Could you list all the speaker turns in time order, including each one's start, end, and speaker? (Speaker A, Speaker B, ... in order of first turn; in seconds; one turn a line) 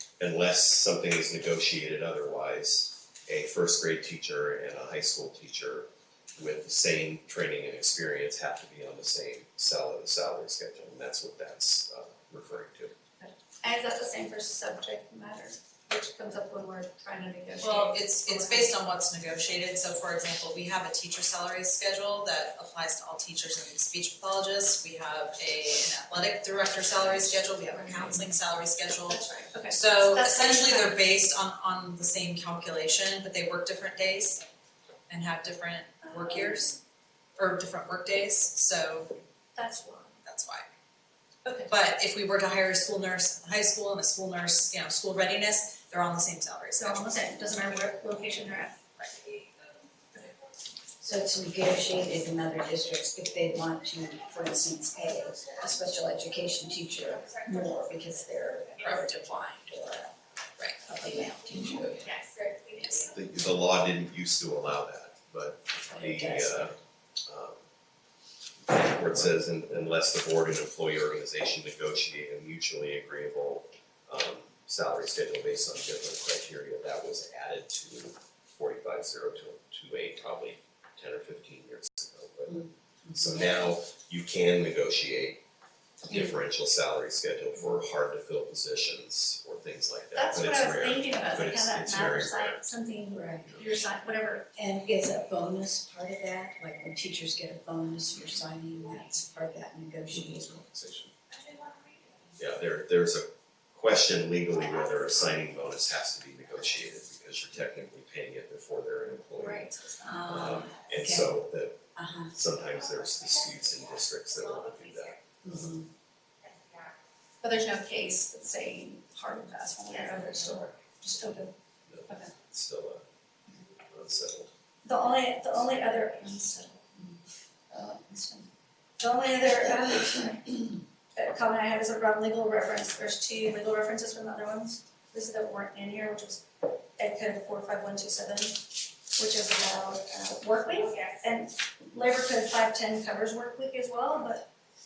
Speaker A: 0.2-12.9
Speaker B: 13.2-18.7
Speaker C: 17.6-34.4
Speaker B: 27.7-28.2
Speaker B: 29.1-31.0
Speaker C: 35.1-36.8
Speaker B: 36.0-36.8
Speaker C: 37.4-39.1
Speaker B: 39.5-40.2
Speaker C: 40.2-40.7
Speaker B: 41.4-41.7
Speaker C: 41.7-47.0
Speaker B: 46.8-48.8
Speaker C: 49.0-49.4
Speaker D: 51.0-60.1
Speaker E: 55.0-59.0
Speaker C: 58.8-59.1
Speaker C: 60.6-62.1
Speaker D: 60.9-62.0
Speaker E: 61.3-63.2
Speaker C: 62.7-63.1
Speaker A: 63.1-66.7
Speaker D: 65.9-66.7
Speaker A: 67.3-67.6
Speaker A: 68.7-85.4
Speaker D: 83.1-83.4
Speaker A: 86.0-92.7
Speaker B: 90.1-94.5
Speaker D: 93.1-93.4
Speaker A: 93.4-93.8
Speaker D: 94.5-100.6
Speaker A: 100.1-101.1
Speaker E: 101.5-102.2
Speaker A: 102.4-109.7
Speaker B: 109.3-110.2
Speaker D: 110.0-111.4
Speaker A: 110.2-115.7
Speaker D: 111.9-112.3
Speaker E: 112.7-115.3
Speaker D: 115.4-115.9
Speaker E: 116.4-117.0
Speaker B: 117.4-121.5
Speaker E: 119.9-120.7
Speaker A: 121.9-123.0
Speaker B: 122.1-122.3
Speaker A: 123.9-124.5
Speaker B: 124.8-127.1
Speaker B: 127.7-144.5
Speaker E: 140.8-141.2